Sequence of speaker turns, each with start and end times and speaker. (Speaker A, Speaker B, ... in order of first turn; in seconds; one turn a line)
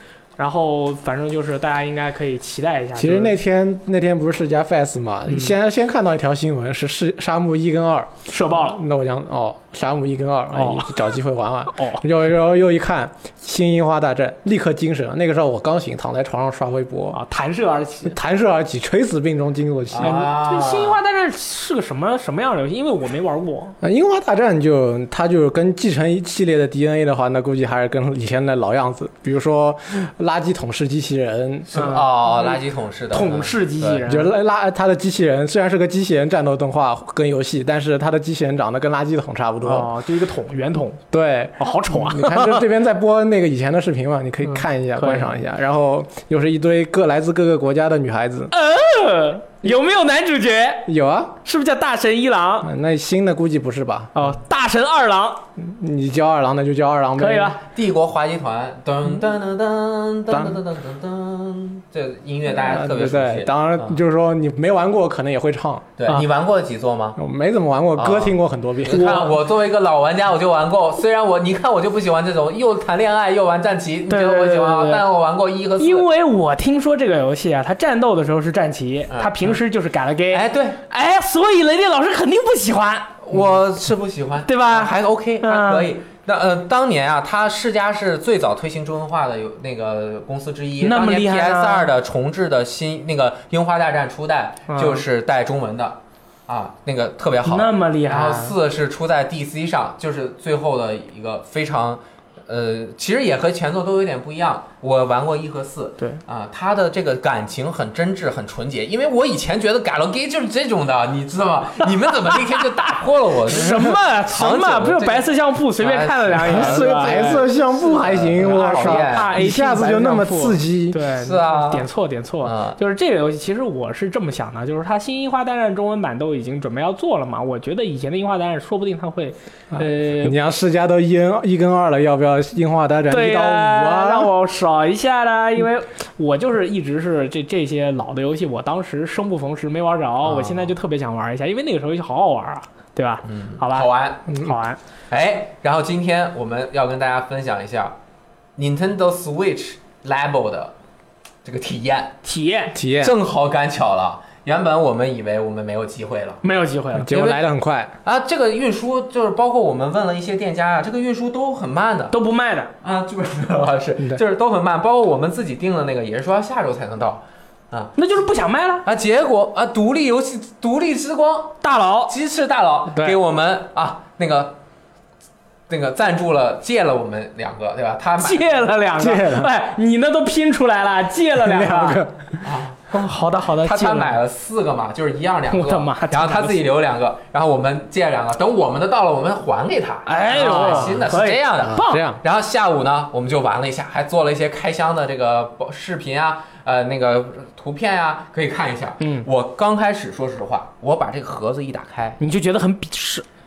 Speaker A: 0.4-3.4
Speaker B: 3.0-17.2
Speaker A: 5.3-5.5
Speaker A: 8.3-8.8
Speaker A: 10.5-11.0
Speaker A: 11.7-12.0
Speaker A: 17.1-18.1
Speaker B: 18.0-20.2
Speaker C: 19.9-20.9
Speaker A: 20.0-23.8
Speaker B: 23.8-31.7
Speaker C: 31.7-34.1
Speaker A: 31.7-32.6
Speaker A: 33.1-34.3
Speaker B: 34.1-39.9
Speaker A: 39.6-41.0
Speaker B: 41.1-48.5
Speaker A: 41.6-42.6
Speaker A: 44.4-45.3
Speaker A: 48.5-50.9
Speaker B: 50.9-51.3
Speaker A: 51.4-52.7
Speaker B: 52.6-54.3
Speaker A: 54.1-55.4
Speaker B: 55.6-57.6
Speaker A: 57.2-57.6
Speaker C: 57.7-64.0
Speaker B: 60.3-60.6
Speaker B: 62.6-65.9
Speaker C: 66.0-67.2
Speaker B: 67.2-69.2
Speaker C: 68.0-76.1
Speaker A: 68.9-69.3
Speaker A: 74.1-75.0
Speaker A: 75.8-83.5
Speaker C: 79.1-79.6
Speaker C: 80.3-80.8
Speaker C: 83.2-119.3
Speaker A: 84.5-85.9
Speaker A: 90.8-91.9
Speaker A: 94.7-95.0
Speaker A: 97.5-98.5
Speaker A: 113.5-117.5
Speaker B: 116.4-121.0
Speaker A: 118.4-130.3
Speaker C: 121.2-121.9
Speaker C: 122.4-122.8
Speaker B: 129.7-134.3
Speaker A: 133.1-144.8
Speaker C: 140.2-140.7
Speaker C: 143.2-144.3
Speaker C: 145.1-147.9
Speaker C: 148.6-150.7
Speaker C: 151.4-152.2
Speaker A: 152.2-152.7
Speaker B: 152.7-153.1
Speaker C: 153.0-156.4
Speaker A: 156.4-157.1
Speaker B: 157.0-157.9
Speaker C: 157.1-157.4
Speaker C: 158.0-162.1
Speaker A: 162.1-162.7
Speaker C: 162.8-167.9
Speaker A: 167.9-168.8
Speaker C: 168.8-174.6
Speaker A: 171.6-172.1
Speaker C: 175.7-178.7
Speaker A: 178.2-182.0
Speaker B: 179.0-179.5
Speaker B: 181.4-182.4
Speaker C: 182.4-182.8
Speaker A: 182.9-184.2
Speaker C: 183.6-202.2
Speaker A: 185.5-186.6
Speaker A: 190.1-192.0
Speaker B: 190.5-191.0
Speaker B: 191.6-192.2
Speaker A: 199.0-199.3
Speaker A: 202.2-203.2